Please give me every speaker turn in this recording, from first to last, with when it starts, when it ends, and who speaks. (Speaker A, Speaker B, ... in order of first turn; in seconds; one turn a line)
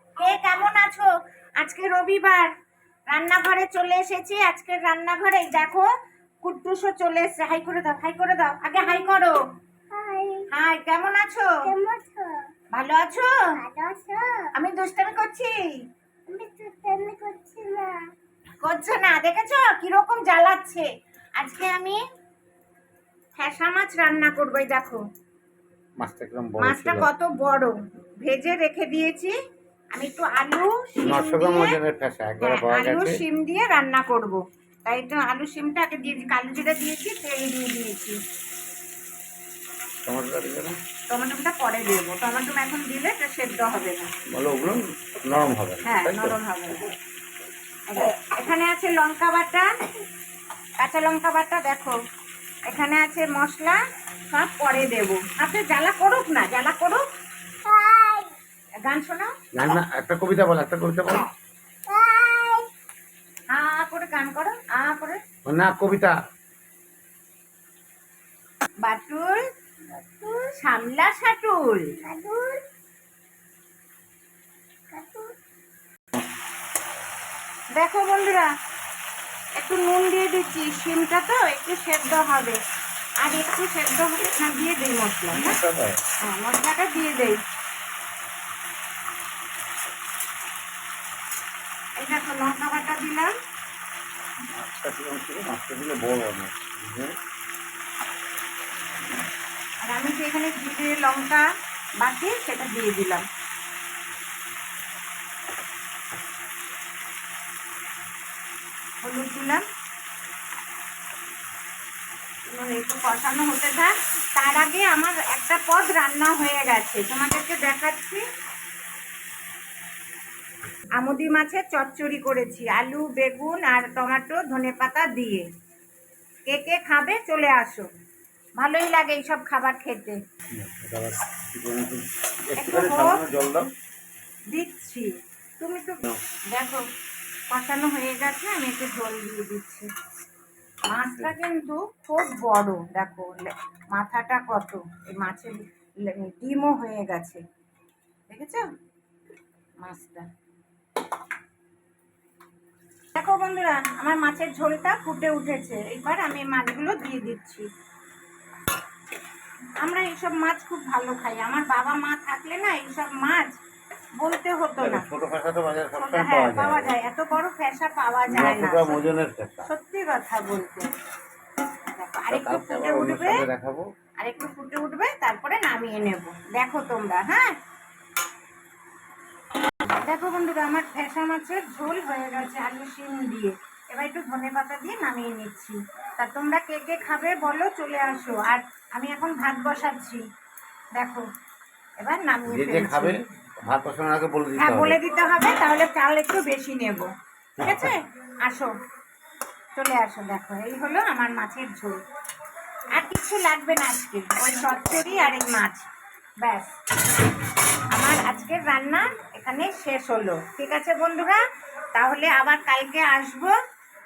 Speaker A: 0.2-2.5
Speaker A: 3.1-5.9
Speaker A: 6.4-9.4
Speaker B: 9.9-10.5
Speaker A: 10.5-11.5
Speaker B: 11.6-12.5
Speaker A: 12.7-13.5
Speaker B: 13.5-14.5
Speaker A: 14.5-15.8
Speaker B: 16.3-18.0
Speaker A: 18.6-20.9
Speaker A: 21.4-22.0
Speaker A: 23.4-25.0
Speaker C: 26.0-27.1
Speaker A: 26.6-29.3
Speaker A: 29.9-31.8
Speaker C: 31.1-33.2
Speaker A: 32.4-38.2
Speaker C: 40.1-40.8
Speaker A: 41.1-44.1
Speaker C: 44.3-46.4
Speaker A: 45.8-47.0
Speaker A: 47.9-49.7
Speaker A: 50.8-52.0
Speaker A: 52.7-53.8
Speaker A: 54.3-57.0
Speaker B: 57.6-58.3
Speaker A: 58.9-59.4
Speaker C: 59.5-61.3
Speaker B: 61.9-62.7
Speaker A: 63.5-65.2
Speaker C: 65.5-66.2
Speaker A: 68.8-69.5
Speaker B: 69.9-70.5
Speaker A: 70.5-71.9
Speaker B: 72.0-72.6
Speaker B: 74.9-75.3
Speaker A: 77.7-78.5
Speaker A: 79.6-82.6
Speaker A: 83.2-85.6
Speaker C: 85.3-86.0
Speaker A: 86.2-87.4
Speaker A: 92.0-93.3
Speaker C: 94.5-97.2
Speaker A: 99.8-101.5
Speaker A: 102.0-103.3
Speaker A: 109.0-109.6
Speaker A: 112.5-118.2
Speaker A: 121.0-125.5
Speaker A: 126.5-127.9
Speaker A: 128.6-130.2
Speaker C: 130.5-133.7
Speaker A: 132.6-133.2
Speaker A: 134.5-136.8
Speaker A: 137.5-139.9
Speaker A: 140.9-147.4
Speaker A: 148.3-148.7
Speaker A: 149.8-150.3
Speaker A: 153.2-157.7
Speaker A: 159.8-163.5
Speaker A: 164.2-165.1
Speaker C: 164.8-166.9
Speaker A: 165.9-169.0
Speaker C: 168.3-169.7
Speaker A: 169.6-170.9
Speaker A: 171.9-173.5
Speaker C: 172.3-173.9
Speaker A: 174.2-177.6
Speaker A: 179.9-190.2
Speaker A: 191.0-191.3
Speaker A: 192.0-193.2
Speaker C: 192.5-195.0
Speaker A: 194.6-197.1
Speaker C: 197.6-197.9
Speaker A: 197.6-198.8
Speaker A: 199.8-202.0
Speaker A: 202.9-205.9
Speaker A: 206.4-206.7
Speaker A: 207.9-211.4
Speaker A: 211.9-213.5